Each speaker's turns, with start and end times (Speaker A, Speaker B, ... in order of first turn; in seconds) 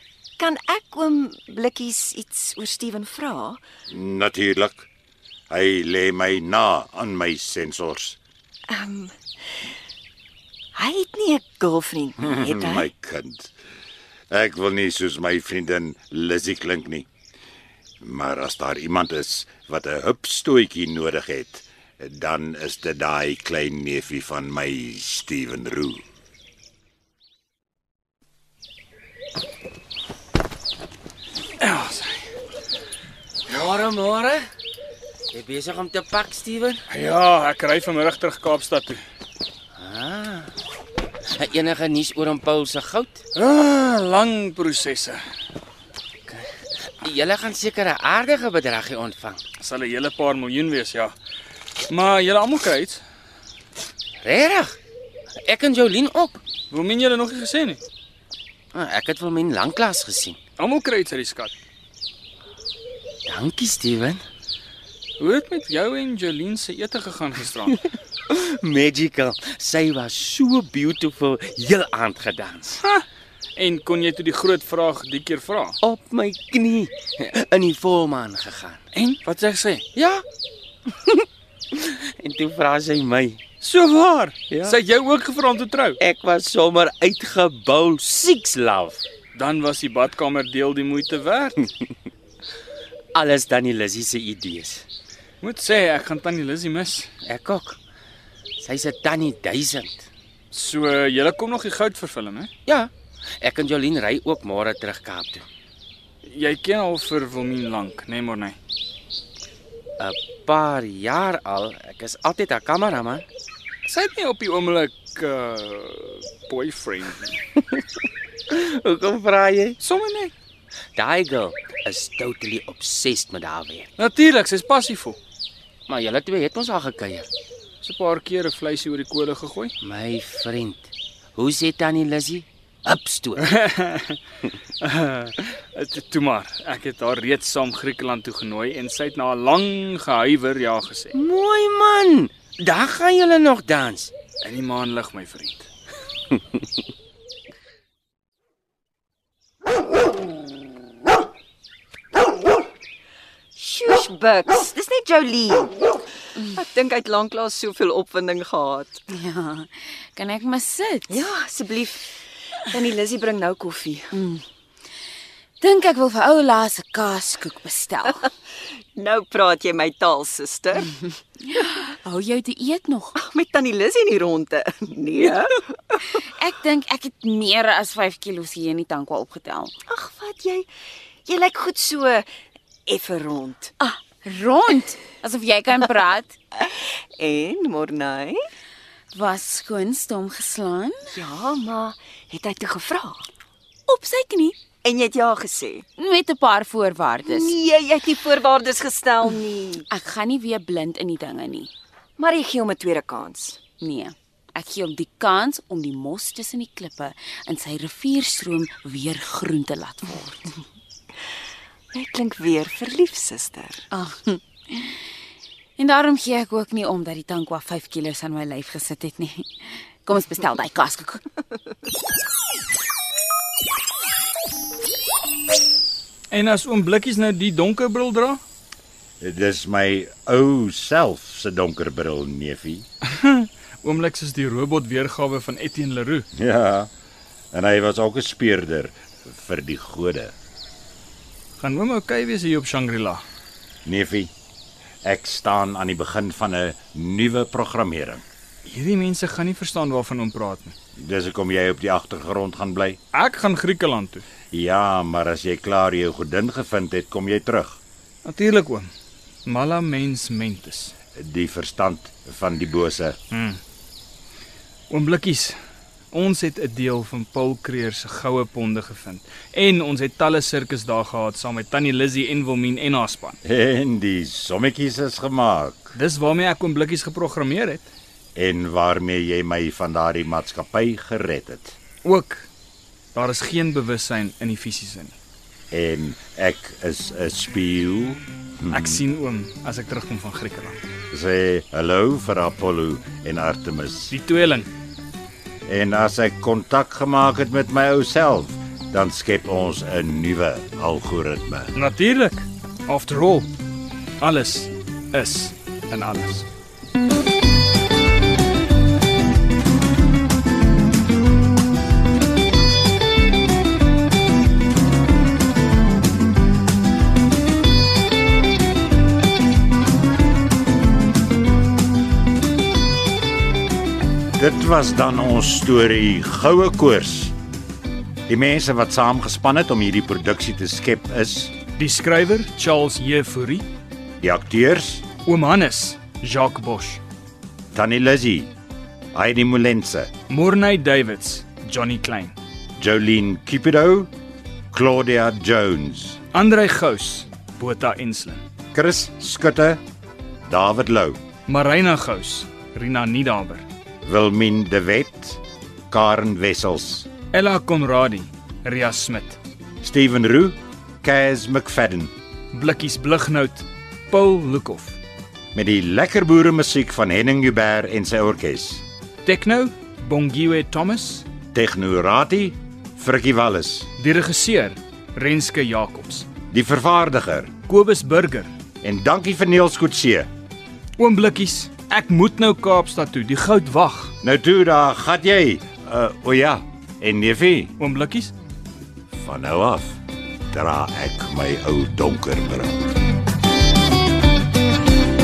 Speaker A: 0.4-3.6, 8.7-9.2, 10.8-12.9, 153.6-155.8, 156.5-159.0, 161.1-164.1, 168.9-170.9, 173.2-176.0, 179.9-180.7, 181.3-182.3, 182.9-183.7, 186.6-188.4, 191.1-193.2, 194.8-195.8, 197.2-199.8, 202.2-203.6, 211.9-213.8
Speaker B: 3.9-4.9, 5.5-8.2, 12.2-13.5, 14.3-17.1, 18.0-26.0, 229.2-232.8, 236.3-236.9, 237.5-240.3, 243.8-244.3, 245.0-248.2, 251.0-253.0, 254.5-257.8, 261.2-263.2, 273.4-275.9, 278.3-281.8, 285.7-289.0, 291.1-294.1, 295.7-301.7, 324.4-327.3, 328.3-331.5, 334.2-335.1, 337.7-338.5, 339.1-340.1, 342.8-344.1, 344.7-346.2, 348.7-349.8, 350.5-351.2, 354.1-357.1, 359.8-362.1, 365.5-368.8, 371.5-373.9, 376.5-377.5, 378.8-380.3, 384.2-387.7, 389.1-390.0, 390.5-392.9
Speaker C: 31.6-32.2, 36.9-39.0, 43.4-45.2, 49.6-51.1, 51.9-53.0, 56.7-57.8, 60.6-61.5, 65.2-67.8, 73.6-75.8, 78.9-79.8, 83.6-86.0, 89.3-91.7, 95.4-97.1, 100.5-102.5, 106.2-108.6, 113.8-117.4, 119.8-120.3, 124.0-125.2, 127.8-129.7, 133.4-134.2, 134.8-141.2, 144.4-145.7, 226.3-228.4, 233.1-236.3, 241.6-243.2, 248.7-250.8, 253.1-254.2, 258.2-258.9, 259.4-260.9, 263.3-263.6, 264.9-265.6, 266.1-273.4, 275.9-277.9, 282.0-282.5, 283.1-285.2, 288.7-290.8, 294.1-294.7, 301.7-303.5, 304.2-306.4, 331.8-333.7, 335.2-337.0, 340.3-342.3, 346.3-348.4, 351.5-353.7, 357.3-359.4, 362.5-365.0, 369.2-371.3, 374.0-376.3, 377.7-378.5, 381.0-384.1, 387.8-388.3
Speaker D: 33.5-34.5, 35.3-36.8, 39.8-40.5, 41.3-43.2, 46.3-49.4, 54.2-54.8, 55.4-56.4, 58.7-60.4, 63.3-64.2, 68.3-72.8, 75.8-78.8, 79.9-80.2, 80.9-83.4, 84.5-84.8, 86.0-89.0, 93.1-94.8, 97.2-97.8, 98.6-100.1, 102.7-105.4, 110.0-113.2, 118.5-119.8, 121.0-123.9, 125.9-127.3, 129.8-133.5, 141.1-144.1
Speaker E: 159.1-161.2, 164.1-164.4, 165.6-168.3, 171.1-173.2, 176.1-179.7, 183.8-186.4, 189.1-191.1, 193.9-194.6, 196.0-197.5, 199.9-201.7, 203.8-210.5, 213.9-215.0, 215.8-221.2